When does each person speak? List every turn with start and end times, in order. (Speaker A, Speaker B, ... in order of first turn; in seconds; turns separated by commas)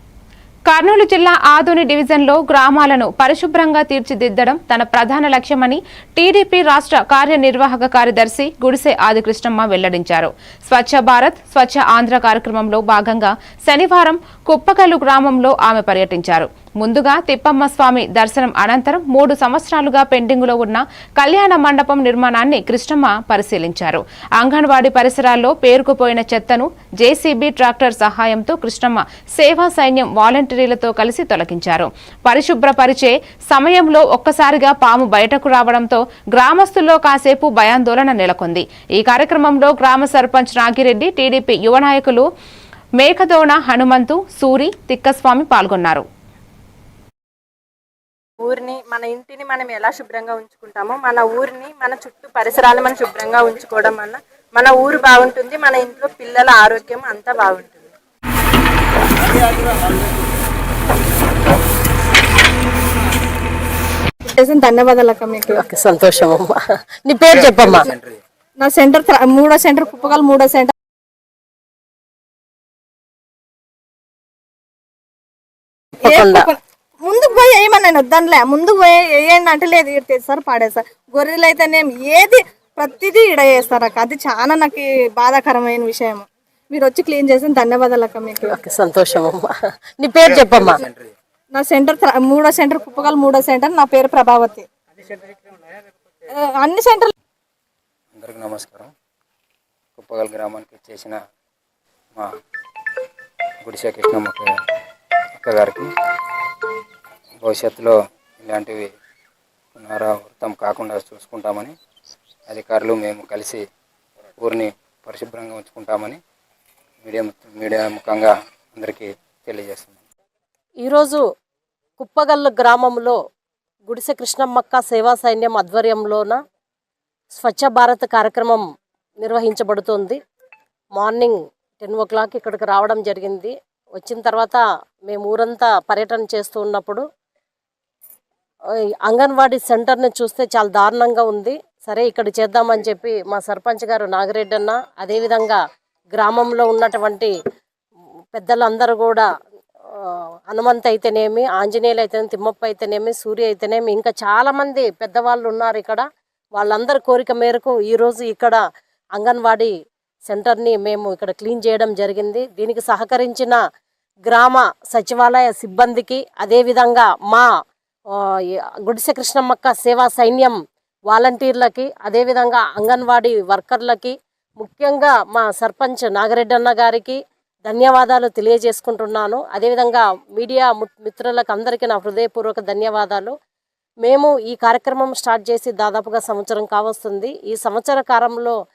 Speaker A: 0.7-42.2, Speaker A: 43.0-46.0, Speaker B: 48.4-57.9, Speaker C: 64.3-65.6, Speaker D: 65.5-67.9, Speaker E: 67.9-68.2, Speaker C: 68.6-70.7, Speaker C: 76.0-88.5, Speaker D: 76.0-76.5, Speaker D: 88.5-89.5, Speaker D: 90.0-90.8, Speaker E: 90.3-91.1, Speaker C: 91.5-94.7, Speaker C: 96.3-97.1, Speaker E: 98.1-98.9, Speaker E: 100.0-101.2, Speaker E: 103.6-104.5, Speaker E: 105.4-105.9, Speaker E: 107.4-108.9, Speaker E: 109.8-111.7, Speaker E: 112.5-113.6, Speaker E: 114.4-116.2, Speaker E: 117.0-119.9, Speaker D: 120.8-121.2, Speaker D: 122.0-123.2, Speaker D: 123.9-126.4, Speaker D: 127.3-128.6, Speaker D: 129.2-130.2, Speaker D: 131.0-137.0, Speaker D: 139.1-145.6, Speaker D: 146.1-147.3, Speaker D: 148.3-149.2, Speaker D: 149.9-156.0, Speaker D: 156.6-158.6, Speaker D: 159.2-159.7, Speaker D: 160.3-163.6, Speaker D: 164.3-167.5, Speaker D: 168.1-170.6, Speaker D: 171.1-183.3, Speaker D: 184.0-188.6